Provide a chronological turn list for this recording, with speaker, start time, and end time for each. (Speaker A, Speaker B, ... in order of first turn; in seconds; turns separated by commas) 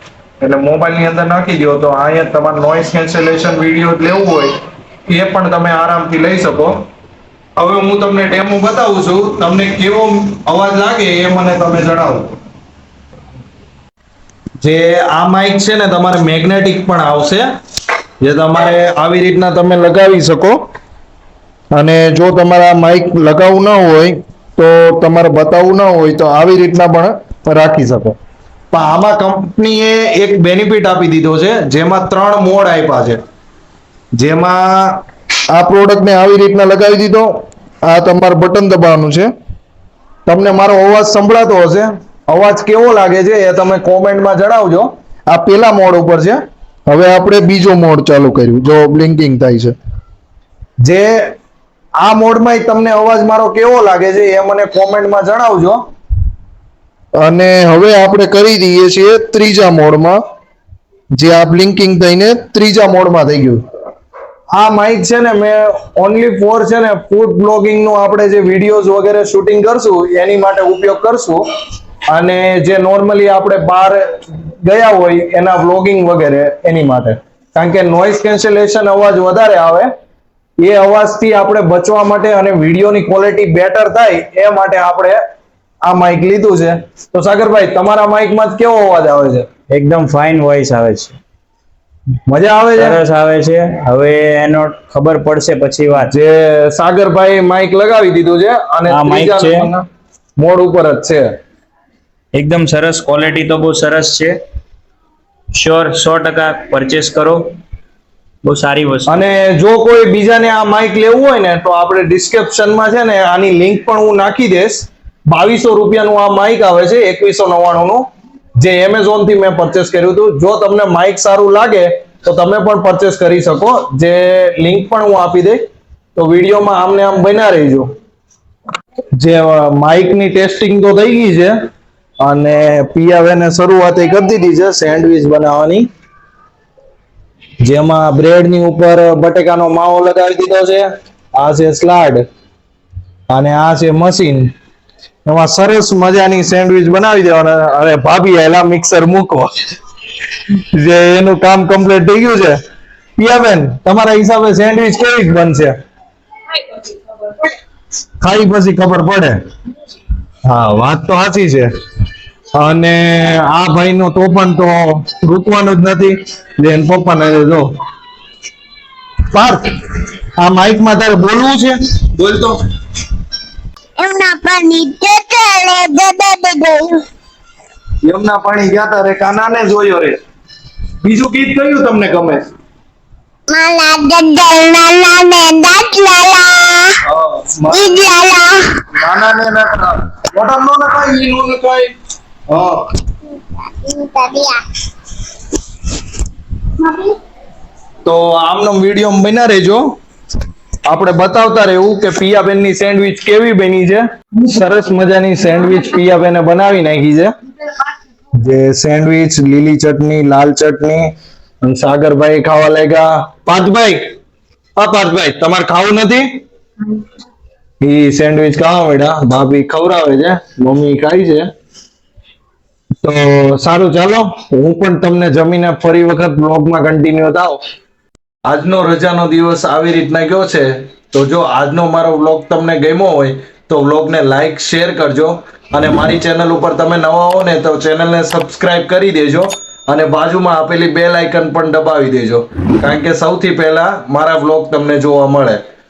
Speaker A: 0.4-4.5, Speaker A: 5.1-6.8, Speaker A: 7.6-12.3, Speaker A: 14.6-17.5, Speaker A: 18.2-20.6, Speaker A: 21.8-28.2, Speaker A: 28.7-33.2, Speaker A: 34.1-39.3, Speaker A: 40.3-49.7, Speaker A: 50.8-51.3, Speaker A: 52.0-55.8, Speaker A: 57.2-60.2, Speaker A: 61.1-63.6, Speaker A: 64.5-71.4, Speaker A: 72.1-74.0, Speaker A: 74.6-79.9, Speaker A: 80.6-85.2, Speaker A: 85.8-89.5, Speaker B: 89.7-91.2, Speaker A: 92.3-93.0, Speaker B: 92.8-96.1, Speaker A: 96.0-99.9, Speaker B: 98.9-99.7, Speaker A: 100.4-101.3, Speaker B: 102.3-104.4, Speaker B: 105.5-107.6, Speaker B: 108.4-109.2, Speaker A: 109.1-118.1, Speaker A: 118.6-125.6, Speaker A: 126.2-127.9, Speaker A: 129.2-131.6, Speaker A: 132.2-135.9, Speaker A: 137.6-142.2, Speaker A: 143.3-144.5, Speaker A: 145.3-149.5, Speaker A: 150.5-152.6, Speaker A: 153.2-155.8, Speaker A: 158.2-159.4, Speaker A: 160.5-161.7, Speaker A: 162.6-167.7, Speaker A: 169.3-172.6, Speaker C: 174.0-177.0, Speaker A: 178.0-180.2, Speaker A: 181.0-182.5, Speaker C: 183.5-187.0, Speaker A: 187.1-188.1, Speaker C: 187.7-188.7, Speaker A: 188.9-191.9, Speaker A: 192.5-192.9, Speaker C: 193.2-194.6, Speaker C: 196.8-197.2, Speaker A: 198.1-199.9, Speaker A: 200.9-207.3, Speaker A: 208.4-211.1, Speaker A: 211.6-214.1, Speaker A: 214.8-216.4, Speaker A: 217.8-221.5, Speaker A: 223.0-227.6, Speaker A: 228.4-245.6